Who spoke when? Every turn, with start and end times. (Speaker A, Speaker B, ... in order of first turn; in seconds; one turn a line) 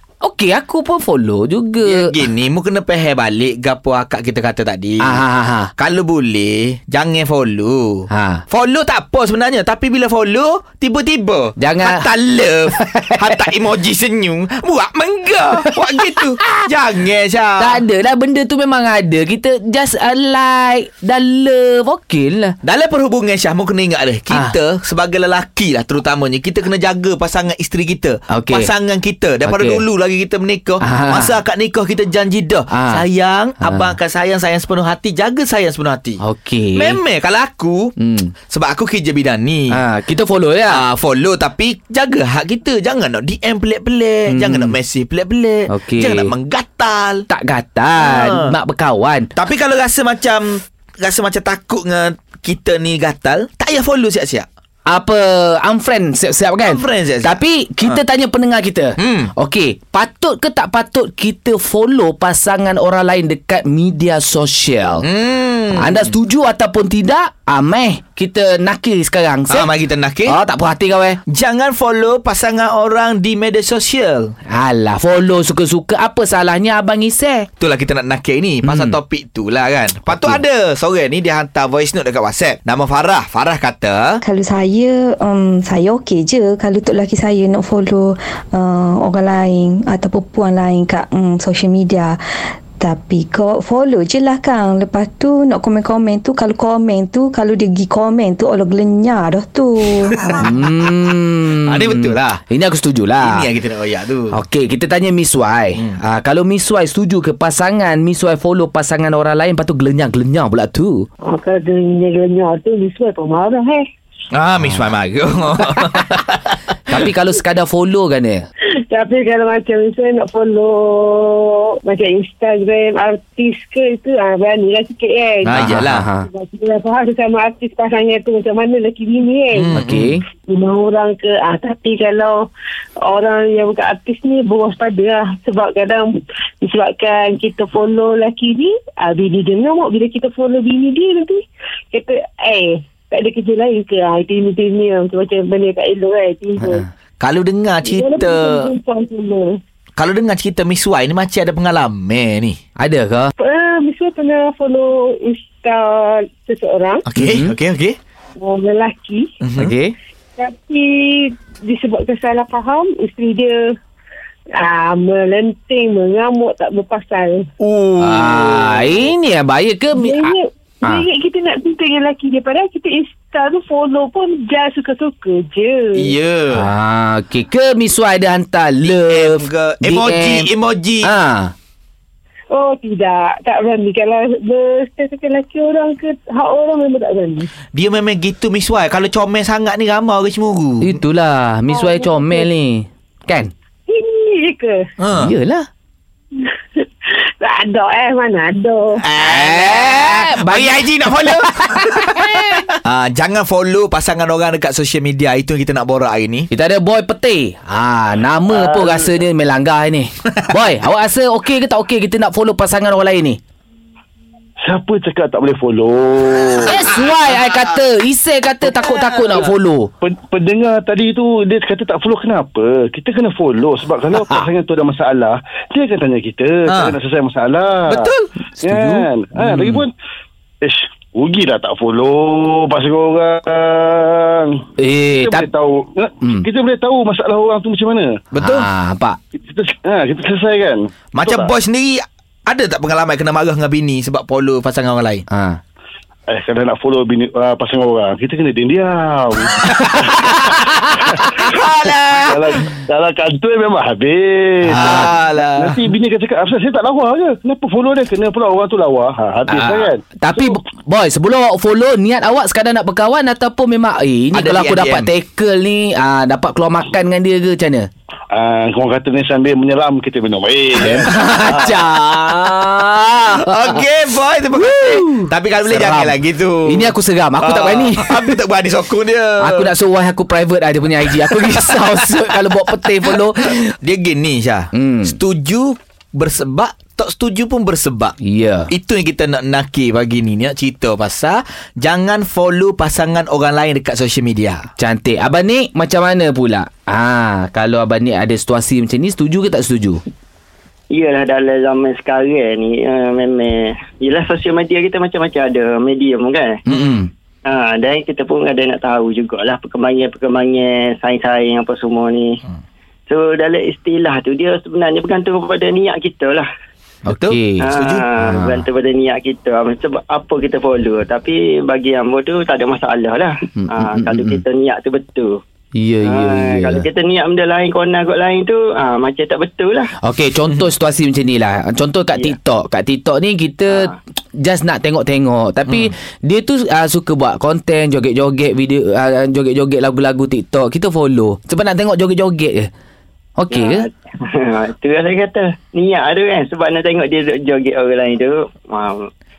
Speaker A: 0.2-2.1
Speaker B: 1.8-5.2
Speaker A: 5.0-5.7
Speaker B: 5.8-17.8
Speaker A: 8.1-8.4
Speaker A: 11.6-12.1
Speaker A: 12.8-13.3
Speaker A: 17.6-22.6
Speaker B: 22.6-36.2
Speaker A: 28.3-28.7
Speaker A: 29.4-29.8
Speaker A: 30.8-31.3
Speaker A: 32.7-33.0
Speaker A: 33.6-33.9
Speaker A: 36.2-37.0
Speaker B: 36.7-37.9
Speaker A: 38.0-38.3
Speaker B: 38.5-39.8
Speaker A: 39.7-40.8
Speaker B: 40.7-47.2
Speaker A: 44.3-44.8
Speaker A: 45.7-46.3
Speaker A: 47.3-49.3
Speaker B: 48.0-48.5
Speaker B: 49.3-54.5
Speaker A: 54.9-65.0
Speaker B: 56.6-58.0
Speaker B: 59.0-59.3
Speaker B: 65.0-66.1
Speaker A: 65.7-69.7
Speaker B: 69.5-70.4
Speaker A: 70.2-71.2
Speaker B: 71.3-74.3
Speaker A: 74.5-77.5
Speaker B: 77.6-84.2
Speaker A: 78.6-79.0
Speaker A: 80.1-80.4
Speaker C: 84.2-92.2
Speaker C: 92.8-100.4
Speaker A: 100.4-103.5
Speaker B: 101.6-102.4
Speaker B: 103.2-104.3
Speaker A: 104.3-111.1
Speaker D: 111.2-113.8
Speaker B: 114.3-116.6
Speaker A: 116.9-118.4
Speaker D: 118.9-125.6
Speaker B: 125.4-126.0
Speaker A: 125.5-126.3
Speaker D: 126.2-129.8
Speaker B: 129.5-130.2
Speaker A: 129.7-130.2
Speaker D: 130.5-132.5
Speaker D: 133.0-146.8
Speaker A: 146.6-146.8
Speaker B: 147.2-148.7
Speaker D: 147.8-149.6
Speaker B: 150.0-152.6
Speaker A: 152.8-153.3
Speaker D: 153.4-157.0
Speaker B: 157.1-158.0
Speaker A: 157.2-157.5
Speaker D: 158.4-159.3
Speaker B: 159.4-159.7
Speaker A: 159.6-159.9
Speaker D: 160.4-163.7
Speaker D: 164.6-167.5
Speaker B: 167.6-169.1
Speaker A: 168.0-171.0
Speaker D: 169.9-176.2
Speaker B: 175.9-176.7
Speaker A: 176.5-180.5
Speaker B: 178.8-181.1
Speaker A: 181.0-181.5
Speaker D: 182.5-187.5
Speaker B: 187.7-191.0
Speaker A: 190.8-193.5
Speaker D: 191.7-192.4
Speaker D: 193.9-194.8
Speaker B: 195.0-195.3
Speaker A: 195.2-195.7
Speaker D: 197.4-199.0
Speaker B: 199.0-206.5
Speaker A: 199.2-202.6
Speaker A: 206.5-213.4
Speaker E: 214.6-216.8
Speaker A: 216.6-219.9
Speaker E: 220.0-228.1
Speaker B: 226.7-226.9
Speaker B: 227.9-228.3
Speaker A: 228.6-229.8
Speaker E: 228.6-229.9
Speaker E: 230.6-234.6
Speaker A: 234.8-235.5
Speaker E: 235.1-238.1
Speaker B: 238.3-238.7
Speaker A: 238.4-239.2
Speaker E: 239.3-241.5
Speaker B: 241.1-245.2
Speaker A: 245.3-245.6
Speaker E: 246.3-251.2
Speaker B: 251.3-252.5
Speaker E: 252.1-260.6
Speaker B: 254.7-255.8
Speaker A: 254.7-255.1
Speaker A: 259.5-267.9
Speaker B: 264.3-265.1
Speaker E: 268.3-271.7
Speaker A: 270.8-273.8
Speaker B: 273.3-279.7
Speaker A: 274.6-278.4
Speaker A: 279.4-283.7
Speaker B: 283.8-288.1
Speaker A: 284.7-285.1
Speaker A: 288.2-288.7
Speaker B: 288.7-294.7
Speaker A: 294.8-300.0
Speaker F: 300.9-306.6
Speaker A: 306.6-307.1
Speaker F: 307.5-312.2
Speaker F: 313.1-316.4
Speaker A: 317.1-318.6
Speaker B: 317.1-318.0
Speaker F: 317.7-325.2
Speaker A: 323.6-324.4
Speaker A: 325.7-326.9
Speaker F: 326.2-329.8
Speaker A: 330.0-342.7
Speaker A: 343.4-343.9
Speaker F: 343.5-343.9
Speaker F: 344.5-348.9